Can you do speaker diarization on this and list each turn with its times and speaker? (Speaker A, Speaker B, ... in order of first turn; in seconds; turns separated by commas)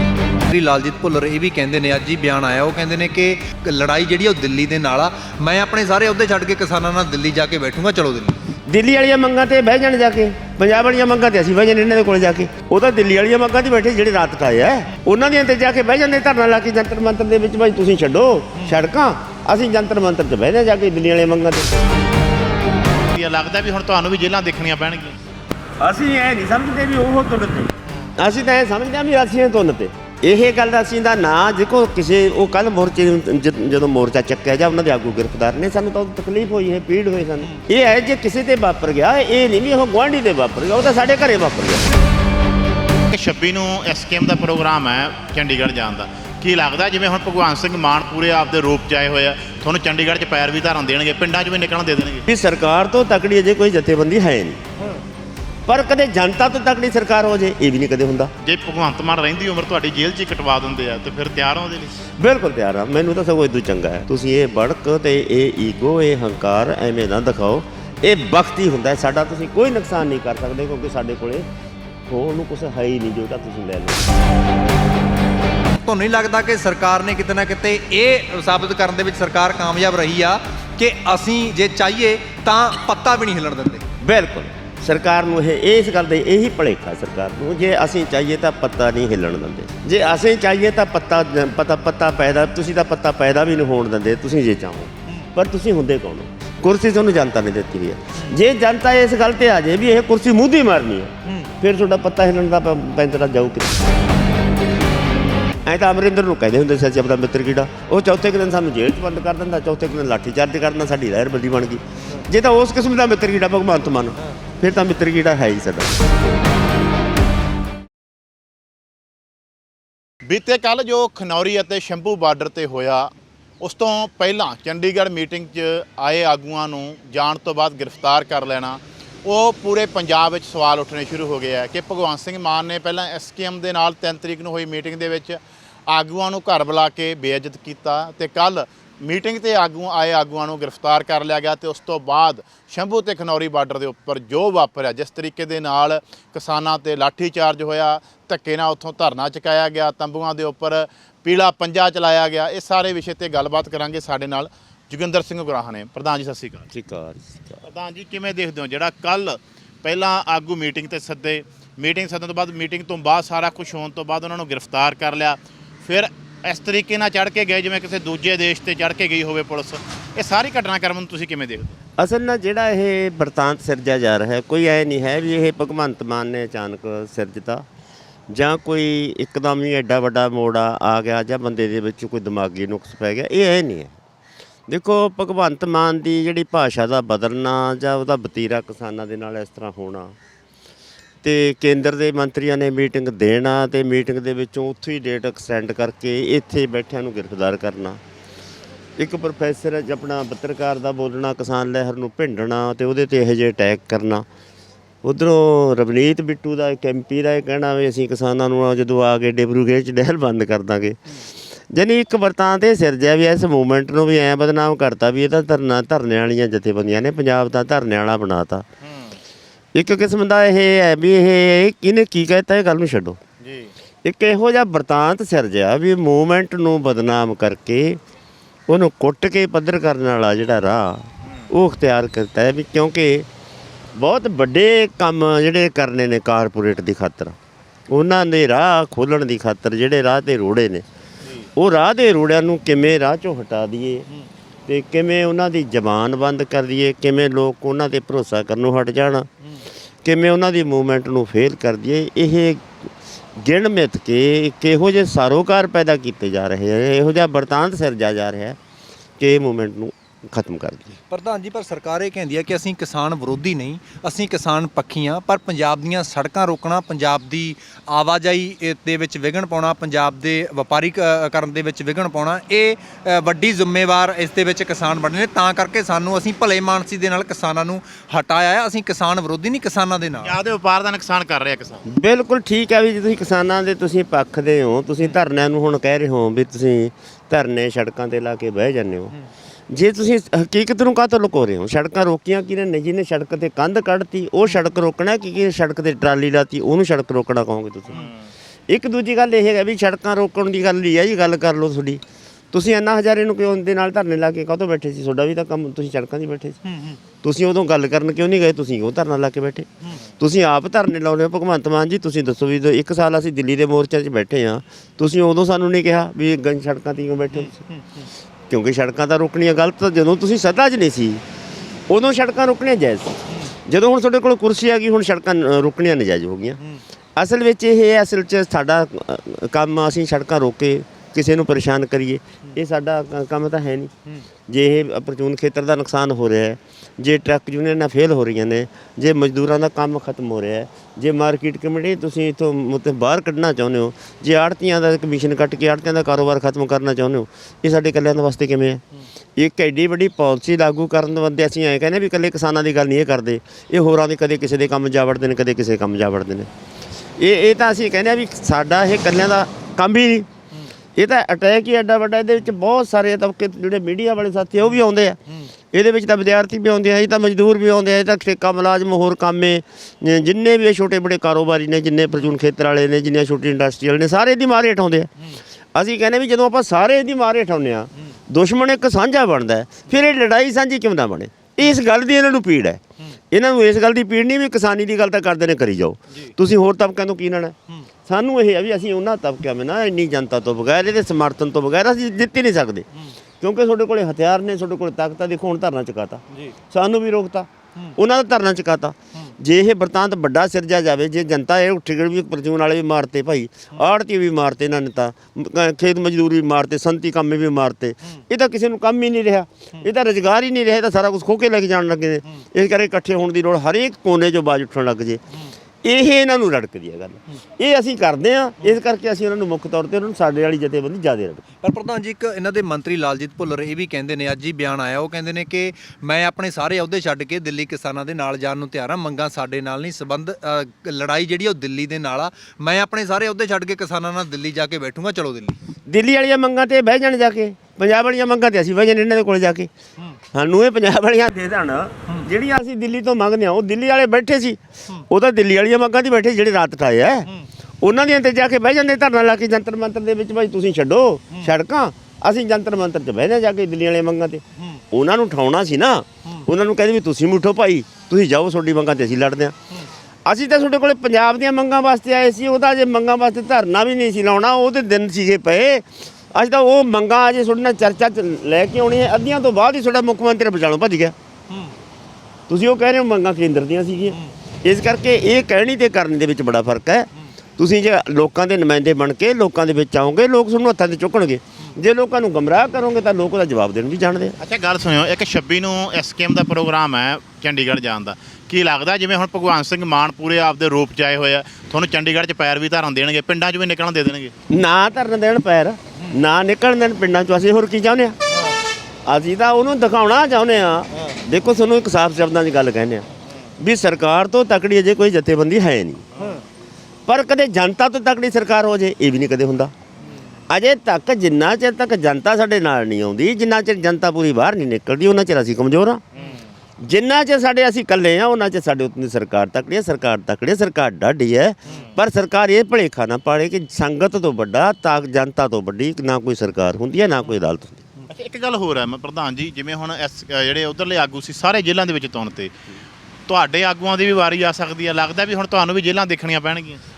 Speaker A: 0.5-8.4, Speaker B: 8.7-21.7, Speaker C: 23.0-25.1, Speaker B: 25.8-41.9, Speaker C: 43.1-52.2, Speaker B: 52.3-54.6, Speaker B: 55.7-58.3, Speaker C: 58.4-61.9, Speaker B: 62.2-71.5, Speaker B: 72.1-74.0, Speaker A: 75.8-83.8, Speaker B: 84.0-104.0, Speaker A: 101.2-101.5, Speaker B: 105.6-115.9, Speaker C: 120.2-156.7, Speaker B: 156.7-157.6, Speaker C: 157.6-171.8, Speaker B: 172.0-177.7, Speaker B: 178.3-184.0, Speaker B: 184.7-190.1, Speaker B: 191.2-198.0, Speaker B: 199.0-204.2, Speaker B: 205.0-218.7, Speaker C: 218.8-219.2, Speaker B: 219.7-223.2, Speaker C: 223.4-223.7, Speaker B: 224.0-228.0, Speaker B: 228.7-233.3, Speaker B: 233.9-237.3, Speaker B: 237.9-240.8, Speaker B: 241.6-244.1, Speaker B: 244.7-249.3, Speaker B: 250.0-258.6, Speaker B: 259.2-261.0, Speaker A: 261.1-280.4, Speaker C: 280.2-281.8, Speaker B: 281.9-289.1, Speaker B: 289.7-298.0, Speaker C: 297.9-298.3, Speaker B: 298.7-306.6, Speaker A: 306.6-307.0, Speaker B: 307.2-309.7, Speaker B: 310.2-317.6, Speaker A: 317.3-318.1, Speaker B: 318.5-321.2, Speaker B: 321.9-326.6, Speaker B: 327.1-333.9, Speaker B: 334.5-348.8, Speaker B: 349.4-356.5, Speaker B: 357.2-360.3, Speaker B: 360.9-365.2, Speaker B: 365.7-375.1, Speaker B: 375.7-392.9, Speaker B: 393.4-415.2, Speaker B: 415.8-421.4, Speaker A: 421.6-435.6, Speaker B: 435.9-439.7, Speaker B: 440.3-447.3, Speaker B: 447.8-459.5, Speaker B: 460.2-471.1, Speaker A: 471.5-471.7, Speaker B: 472.5-484.4, Speaker C: 484.4-494.3, Speaker B: 494.5-498.2, Speaker B: 499.1-503.1, Speaker B: 503.6-506.1, Speaker B: 507.1-509.7, Speaker B: 510.5-516.0, Speaker C: 516.1-516.4, Speaker B: 516.8-527.9, Speaker C: 528.1-532.5, Speaker C: 533.3-536.8